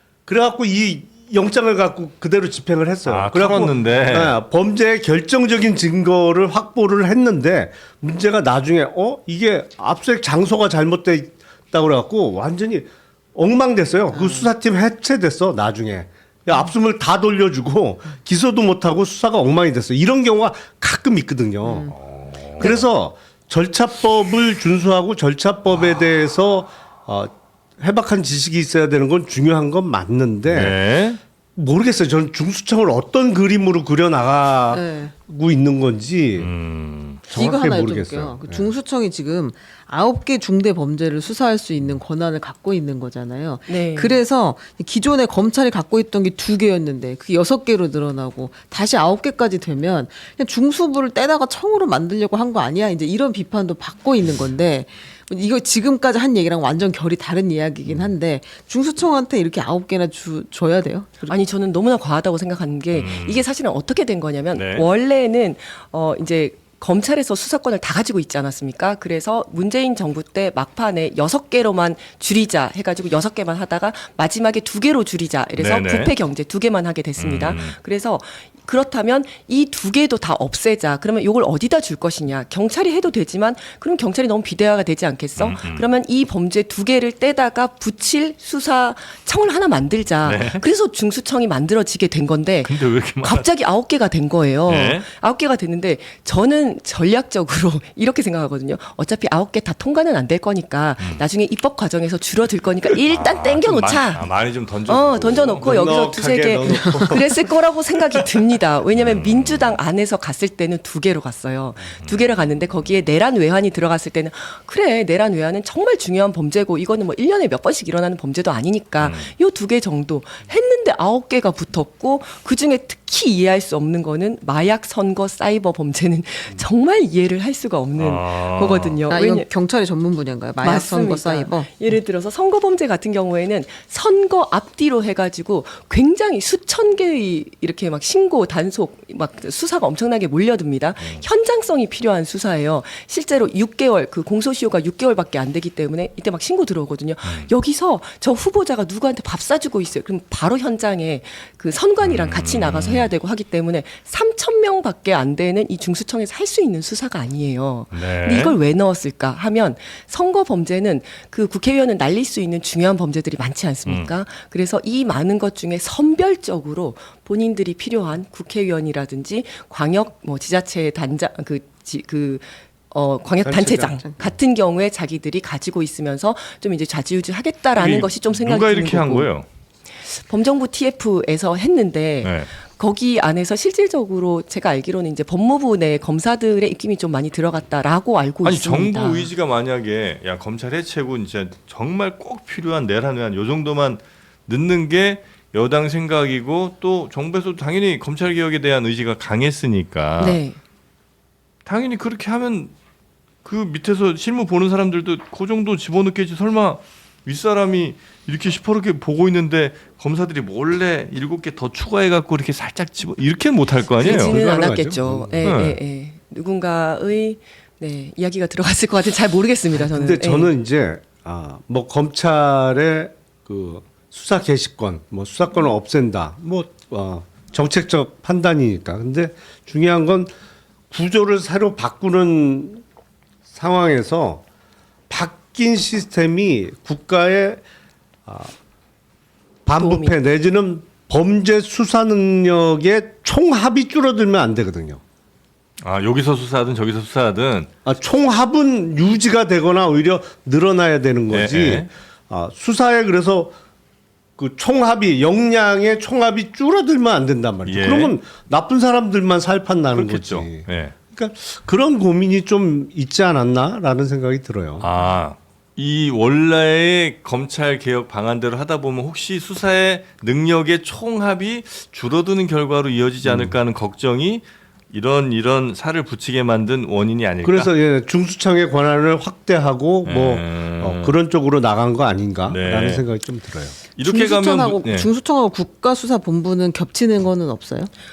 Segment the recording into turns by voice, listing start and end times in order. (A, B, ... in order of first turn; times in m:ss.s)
0:00.3-0:21.9 A
0:03.0-0:04.3 B
0:14.1-0:14.5 C
0:21.6-0:21.9 C
0:21.9-0:22.8 B
0:22.6-0:30.8 A
0:30.5-0:31.2 B
0:31.6-0:36.5 A
0:34.7-0:35.1 C
0:36.4-0:37.2 B
0:37.3-0:38.7 A
0:37.3-1:01.4 C
0:43.7-0:44.2 D
1:01.3-1:44.3 D
1:02.9-1:03.4 B
1:04.5-1:04.8 B
1:15.6-1:16.1 B
1:17.2-1:17.7 B
1:25.4-1:25.9 B
1:30.2-1:30.6 B
1:32.6-1:33.4 B
1:34.7-1:35.0 B
1:41.0-1:41.2 B
1:43.1-1:46.1 B
1:44.9-2:09.5 D
1:45.6-1:47.4 A
1:48.9-1:49.8 B
1:59.0-1:59.3 B
2:08.0-2:09.0 B
2:09.1-2:11.7 C
2:10.6-2:59.3 D
2:21.0-2:21.2 B
2:27.2-2:27.5 B
2:32.0-2:33.0 B
2:37.9-2:38.6 B
2:43.8-2:44.1 B
2:53.4-2:54.1 A
2:57.8-2:59.4 B
3:00.0-3:09.3 D
3:02.2-3:02.5 B
3:08.4-3:20.4 B
3:20.2-3:20.6 D
3:21.6-3:22.7 B
3:23.4-3:34.4 B
3:34.0-3:40.5 D
3:34.0-3:35.7 A
3:35.4-3:35.8 B
3:39.8-3:50.3 A
3:50.9-3:52.8 A
3:53.5-3:54.4 A
3:55.1-3:57.6 A
3:58.2-3:58.5 A
3:59.6-4:05.0 A
3:59.8-4:00.1 D
4:05.8-4:07.7 B
4:07.8-4:13.5 A
4:11.3-4:11.9 B
4:14.4-4:24.9 A
4:17.6-4:18.2 B
4:19.9-4:21.0 B
4:24.8-4:37.7 B
4:33.2-4:33.5 A
4:37.4-4:43.8 A
4:40.0-4:41.2 B
4:42.5-4:43.0 B
4:43.8-4:45.1 B
4:44.0-4:47.9 C